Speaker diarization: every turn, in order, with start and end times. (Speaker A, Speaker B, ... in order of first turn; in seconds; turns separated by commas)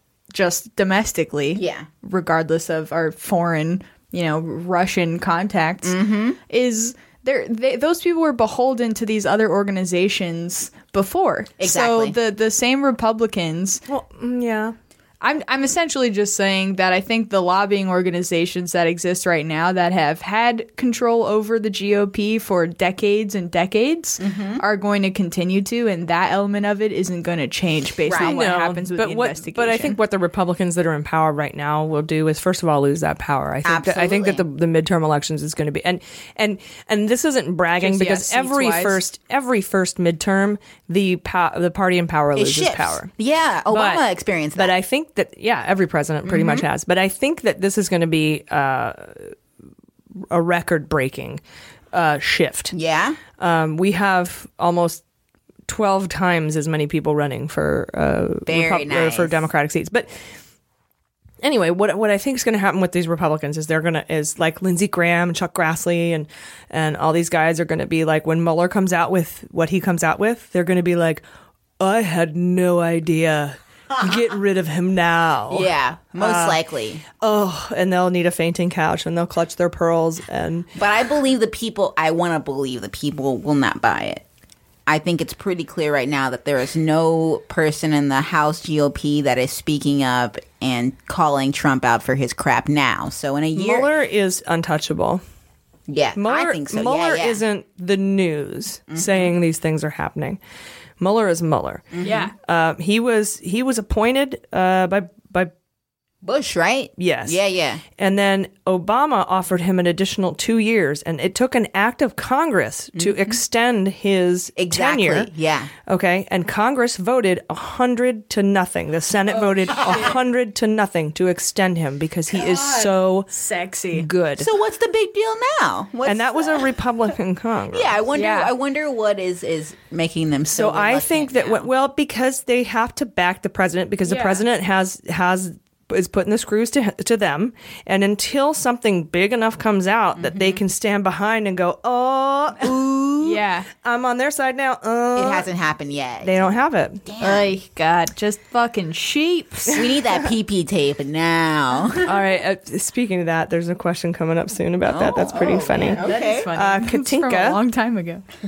Speaker A: 0.3-5.9, Speaker B: 1.5-1.9, Speaker B: 5.8-6.4, Speaker A: 6.5-13.8, Speaker B: 11.6-12.2, Speaker C: 13.9-14.7, Speaker A: 15.2-30.0, Speaker B: 24.2-24.6, Speaker B: 28.1-28.4, Speaker C: 28.2-43.1, Speaker B: 33.6-34.4, Speaker A: 37.8-39.0, Speaker B: 42.4-44.7, Speaker C: 43.7-44.0, Speaker C: 44.5-49.3, Speaker B: 46.2-46.6, Speaker C: 50.3-51.4, Speaker C: 51.9-52.7, Speaker B: 52.7-53.2, Speaker C: 53.4-55.0, Speaker C: 55.7-60.1, Speaker B: 58.5-59.4, Speaker C: 61.4-71.2, Speaker C: 71.8-76.6, Speaker B: 75.5-77.0, Speaker C: 77.2-80.7, Speaker B: 80.8-84.2, Speaker B: 84.9-93.9, Speaker C: 93.5-95.2, Speaker B: 95.9-97.4, Speaker C: 96.2-100.4, Speaker B: 98.9-99.3, Speaker C: 101.0-105.5, Speaker B: 101.9-102.3, Speaker A: 102.0-102.3, Speaker B: 106.2-107.8, Speaker C: 107.0-107.4, Speaker C: 108.0-115.3, Speaker B: 113.0-113.3, Speaker B: 114.6-115.7, Speaker C: 115.8-123.3, Speaker A: 119.6-120.1, Speaker A: 122.3-124.1, Speaker C: 123.9-124.5, Speaker B: 124.4-126.7, Speaker C: 126.0-127.9, Speaker B: 127.7-131.7, Speaker A: 128.1-128.5, Speaker C: 130.5-145.5, Speaker A: 134.1-134.4, Speaker B: 140.2-140.6, Speaker A: 143.2-143.7, Speaker B: 145.1-146.5, Speaker C: 146.2-147.0, Speaker B: 147.1-147.5, Speaker A: 147.2-149.8, Speaker B: 149.7-152.1, Speaker C: 152.0-157.6, Speaker B: 154.9-156.5, Speaker A: 156.0-158.2